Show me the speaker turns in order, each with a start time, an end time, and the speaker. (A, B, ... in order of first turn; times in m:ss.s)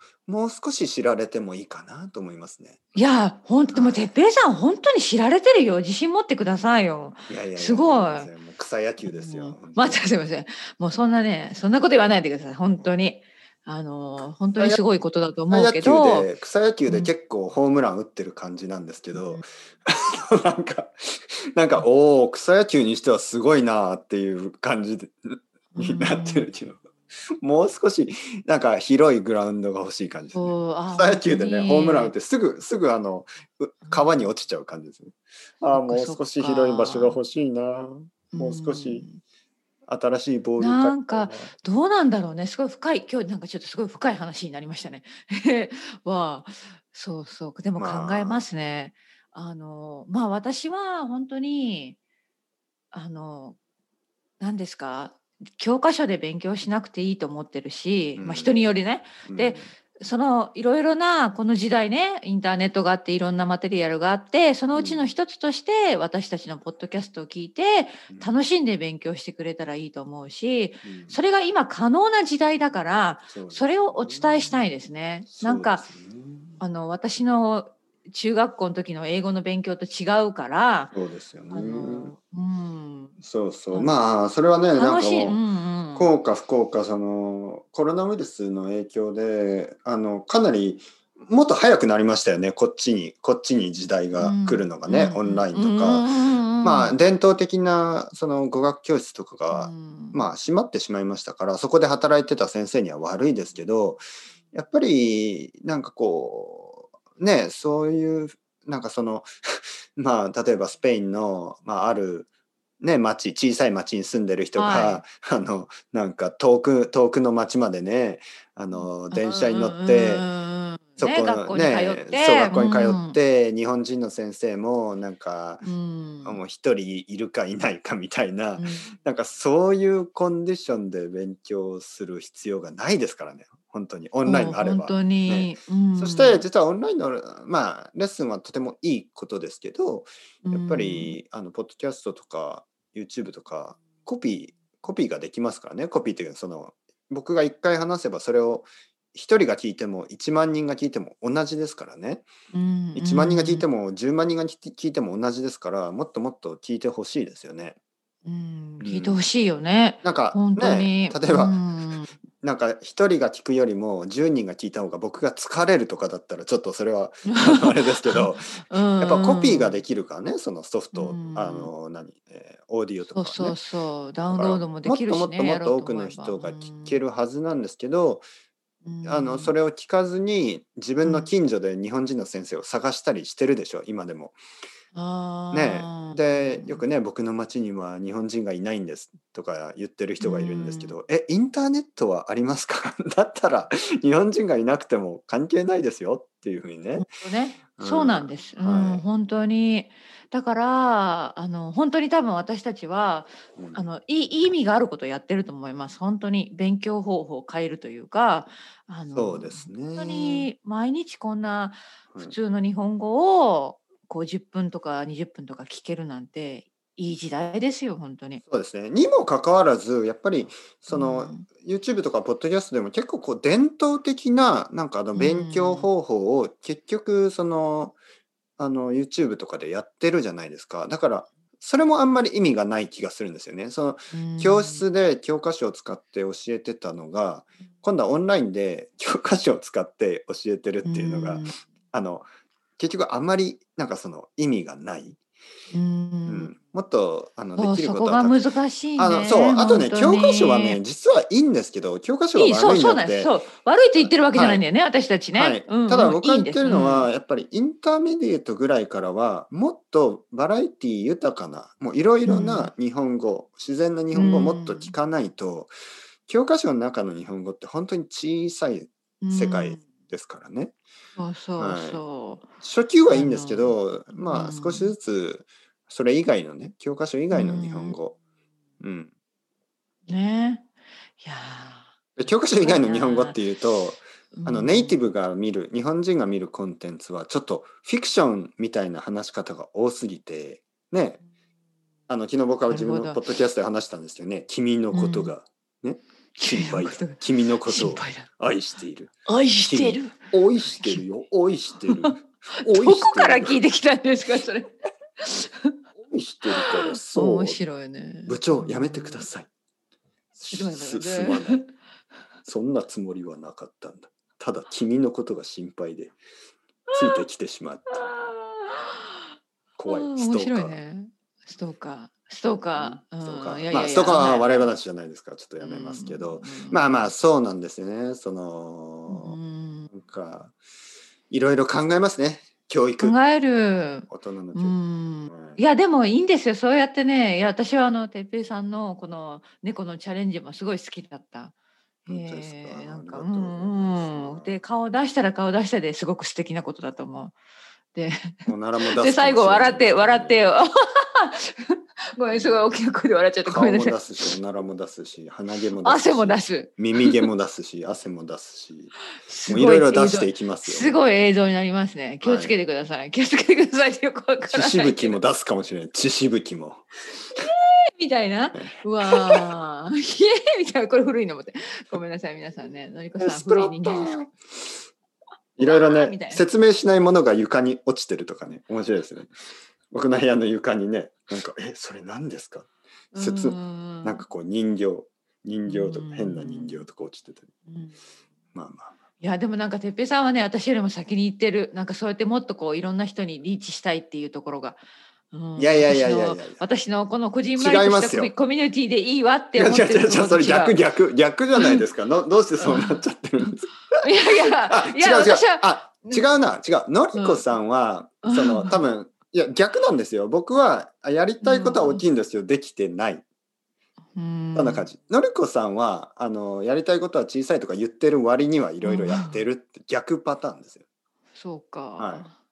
0:00.3-0:02.8 A
0:02.9-0:08.3 B
0:03.7-0:04.1 A
0:07.3-0:10.0 A
0:09.0-0:16.3 B
0:15.5-0:26.8 A
0:16.8-0:17.1 B
0:19.1-0:19.4 B
0:25.7-0:26.5 B
0:27.4-0:39.1 A
0:30.3-0:32.1 B
0:33.8-0:34.2 B
0:35.7-0:37.2 B
0:38.3-0:39.2 B
0:39.8-0:41.5 A
0:40.6-0:52.0 B
0:47.8-0:48.4 A
0:52.9-0:53.6 B
0:54.4-1:15.8 B
0:58.2-0:58.6 A
0:59.2-0:59.7 A
1:04.7-1:05.1 A
1:08.1-1:08.3 A
1:10.8-1:11.2 A
1:13.3-1:14.6 A
1:15.3-1:16.6 A
1:16.6-1:20.9 B
1:20.9-1:22.1 A
1:21.5-1:23.1 B
1:23.2-1:25.4 A
1:24.8-1:26.1 B
1:25.9-1:52.3 A
1:34.2-1:36.9 B
1:39.5-1:40.2 B
1:52.8-2:00.3 A
1:54.5-1:55.0 B
1:58.7-2:03.2 B
2:01.0-2:05.7 A
2:05.6-2:06.4 B
2:06.2-2:32.3 A
2:08.6-2:08.9 B
2:14.2-2:16.4 B
2:20.4-2:21.2 B
2:32.5-2:33.7 B
2:32.9-2:37.8 A
2:38.2-2:42.1 B
2:38.8-2:39.2 A
2:40.0-2:41.6 A
2:42.4-2:53.6 A
2:47.3-2:49.8 B
2:50.9-2:51.7 B
2:53.0-2:57.0 B
2:54.3-2:58.2 A
2:58.8-2:59.5 B
2:59.0-3:04.4 A
3:01.0-3:01.3 B
3:04.9-3:06.8 B
3:05.5-3:17.1 A
3:10.2-3:10.9 B
3:17.0-3:38.4 B
3:17.8-3:19.0 A
3:23.6-3:23.9 A
3:29.1-3:30.5 A
3:38.4-3:48.0 A
3:40.9-3:41.4 B
3:45.1-3:45.9 B
3:48.6-4:05.2 A
3:54.1-3:54.8 B
4:00.8-4:01.6 B
4:05.7-4:06.5 B
4:06.3-4:08.4 A
4:07.6-4:10.8 B
4:09.0-4:13.3 A
4:12.3-4:17.1 B
4:14.0-4:14.6 A
4:15.3-4:25.7 A
4:22.2-4:22.7 B
4:24.1-4:24.9 B
4:26.3-4:30.7 A
4:29.2-4:29.8 B
4:31.2-4:32.4 B
4:31.6-4:32.0 A
4:32.6-4:38.1 A
4:33.1-4:34.9 B
4:37.3-4:38.0 B
4:38.8-4:39.1 A
4:40.1-4:40.7 B
4:41.2-4:41.9 B
4:42.2-4:51.2 A
4:42.6-4:43.4 B
4:44.3-4:45.0 B
4:52.1-5:03.6 A
4:52.7-4:53.2 B
4:54.9-4:55.3 B
4:56.4-4:58.3 B
4:59.3-5:01.0 B
5:01.9-5:05.8 B
5:06.0-5:07.6 A
5:06.5-5:09.3 B
5:08.3-5:09.5 A
5:10.3-5:11.6 A
5:10.5-5:11.7 B
5:12.4-5:16.2 A
5:16.9-5:17.2 B
5:16.9-5:18.0 A
5:18.0-5:19.2 B
5:19.8-5:20.8 A
5:19.8-5:24.8 B
5:22.8-5:29.4 A
5:25.6-5:27.0 B
5:29.1-5:29.9 B
5:29.9-5:30.5 A
5:31.3-5:33.2 A
5:33.0-5:41.5 B
5:34.1-5:35.6 A
5:42.1-5:47.4 B
5:42.1-5:44.6 A
5:47.9-5:54.3 B
5:48.5-5:50.4 A
5:52.3-5:52.7 A
5:53.4-5:58.9 A
5:55.8-5:57.3 B
5:59.2-6:05.2 B
5:59.5-6:01.0 A
6:02.2-6:02.5 A
6:04.5-6:06.9 A
6:07.2-6:14.2 B
6:08.5-6:09.5 A
6:13.2-6:14.3 A
6:15.6-6:19.3 A
6:15.6-6:16.4 B
6:19.9-6:27.5 A
6:23.1-6:24.2 B
6:25.7-6:26.8 B
6:27.7-6:28.0 B
6:28.5-6:28.9 A
6:29.2-6:40.8 B
6:35.6-6:36.6 A
6:37.6-6:38.3 A
6:39.5-6:53.2 A
6:41.5-6:41.8 B
6:42.6-6:43.5 B
6:44.0-6:46.4 B
6:47.1-6:47.4 B
6:48.2-6:48.8 B
6:51.4-6:52.0 B
6:54.1-6:54.9 B
6:54.5-7:00.8 A
6:58.8-6:59.5 B
7:01.3-7:02.3 B
7:02.0-7:02.3 A